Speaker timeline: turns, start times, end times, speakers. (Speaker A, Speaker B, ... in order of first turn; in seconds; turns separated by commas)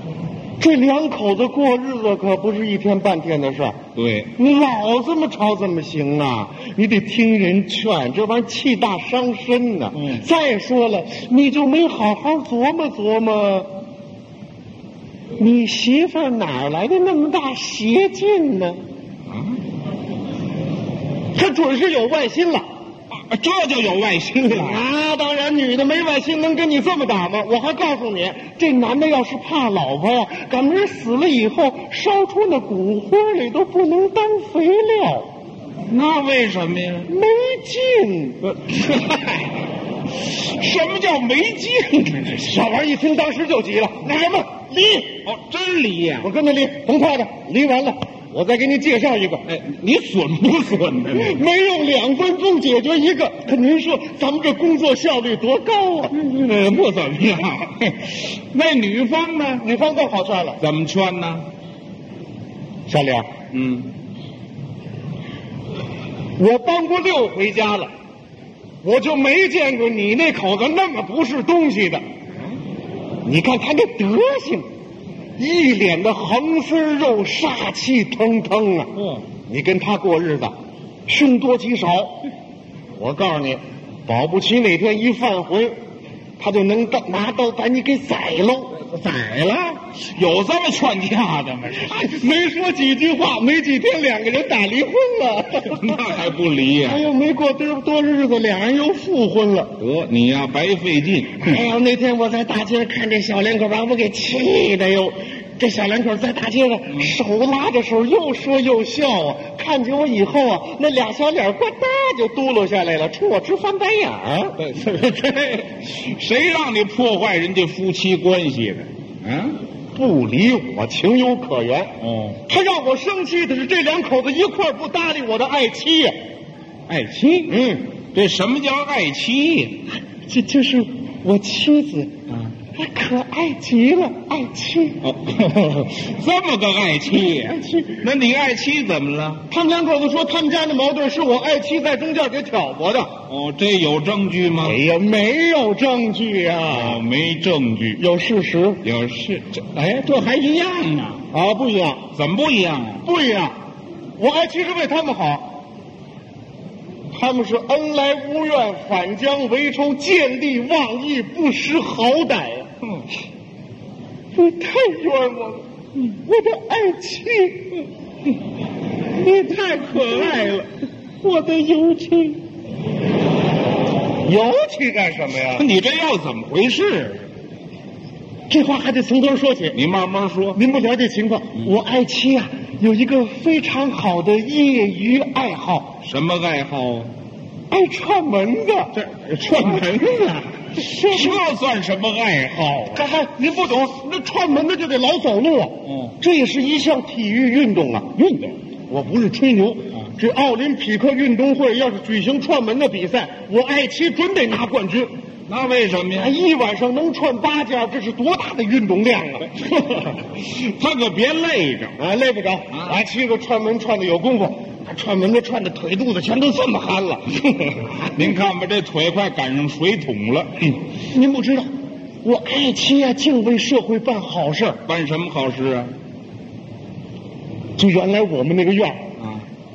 Speaker A: 0.6-3.8, Speaker B: 4.0-4.3, Speaker A: 4.4-13.7, Speaker B: 10.0-10.2, Speaker A: 15.4-18.8, Speaker B: 19.3-19.6, Speaker A: 21.3-22.7, Speaker B: 23.1-24.8, Speaker A: 24.4-35.3, Speaker B: 35.9-37.1, Speaker A: 37.1-38.4, Speaker B: 38.4-39.6, Speaker B: 40.1-42.5, Speaker A: 42.4-45.2, Speaker B: 45.2-46.3, Speaker A: 46.2-49.4, Speaker B: 49.5-51.4, Speaker A: 51.1-56.1, Speaker B: 56.1-59.6, Speaker A: 59.6-60.6, Speaker B: 60.6-61.5, Speaker A: 62.9-63.3, Speaker B: 63.5-63.9, Speaker A: 66.4-67.9, Speaker A: 68.8-72.0, Speaker A: 73.2-74.7, Speaker A: 75.4-80.5, Speaker B: 79.0-79.2, Speaker A: 81.1-82.2, Speaker A: 83.0-85.8, Speaker A: 86.4-88.8, Speaker B: 88.8-92.3, Speaker A: 91.9-96.0, Speaker B: 95.7-97.0, Speaker A: 96.8-99.8, Speaker B: 99.8-101.6, Speaker A: 101.4-114.6, Speaker B: 114.6-119.6, Speaker A: 120.0-121.9, Speaker B: 122.0-122.4, Speaker A: 122.5-126.2, Speaker B: 126.9-127.6, Speaker A: 127.5-127.9, Speaker B: 128.1-129.8, Speaker A: 130.0-132.2, Speaker B: 132.3-132.6, Speaker A: 132.7-135.0, Speaker B: 135.0-139.5, Speaker A: 137.3-138.0, Speaker A: 139.5-143.2, Speaker B: 143.3-144.8, Speaker A: 144.6-147.0, Speaker B: 146.7-148.0, Speaker A: 148.0-148.8, Speaker B: 148.8-151.3, Speaker A: 151.3-152.1, Speaker B: 152.1-153.1, Speaker A: 153.1-153.6, Speaker A: 154.2-155.6, Speaker A: 157.1-162.7, Speaker A: 164.3-167.8, Speaker B: 169.1-170.7, Speaker B: 171.2-172.4, Speaker A: 174.2-175.7, Speaker B: 175.5-177.3, Speaker A: 178.5-179.8, Speaker B: 179.7-180.6, Speaker A: 180.5-186.0, Speaker B: 186.0-187.1, Speaker A: 187.7-190.2, Speaker B: 188.9-193.2, Speaker A: 190.8-191.4, Speaker A: 192.9-198.1, Speaker B: 195.9-196.2, Speaker B: 198.2-198.6, Speaker A: 198.9-205.1, Speaker B: 205.5-206.4, Speaker A: 206.1-209.6, Speaker B: 209.5-212.0, Speaker A: 212.0-218.1, Speaker B: 212.7-213.0, Speaker B: 218.1-220.8, Speaker A: 221.1-221.7, Speaker A: 222.2-224.8, Speaker B: 224.9-225.9, Speaker A: 227.8-229.1, Speaker B: 229.2-229.5